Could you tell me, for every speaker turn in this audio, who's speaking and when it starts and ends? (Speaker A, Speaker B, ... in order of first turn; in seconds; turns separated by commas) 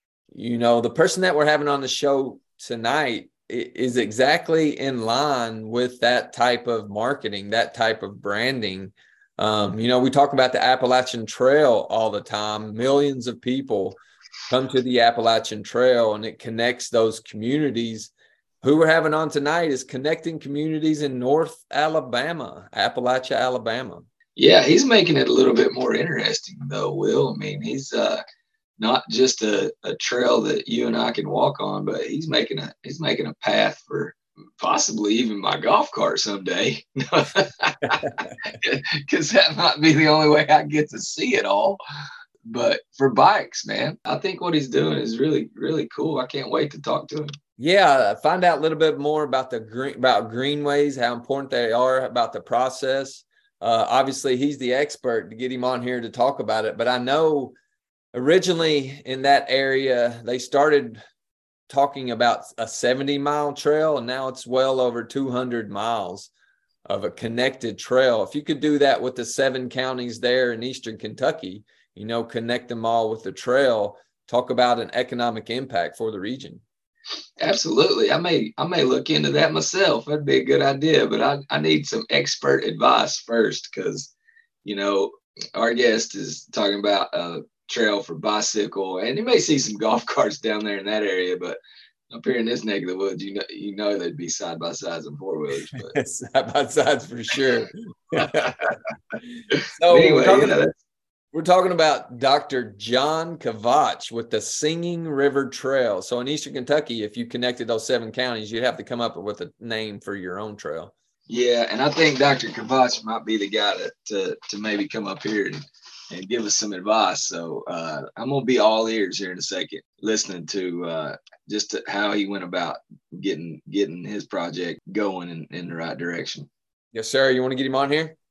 Speaker A: 0.3-18.1, Speaker A: 18.6-24.1, Speaker B: 24.4-28.2, Speaker B: 28.8-41.8, Speaker B: 42.4-47.3, Speaker A: 47.6-57.5, Speaker A: 58.1-61.0, Speaker A: 61.7-66.3, Speaker A: 66.9-76.6, Speaker B: 77.4-84.1, Speaker B: 84.6-91.6, Speaker B: 92.1-96.0, Speaker A: 95.8-100.6, Speaker B: 99.5-100.7, Speaker A: 101.3-110.9, Speaker B: 111.3-126.5, Speaker A: 126.9-128.2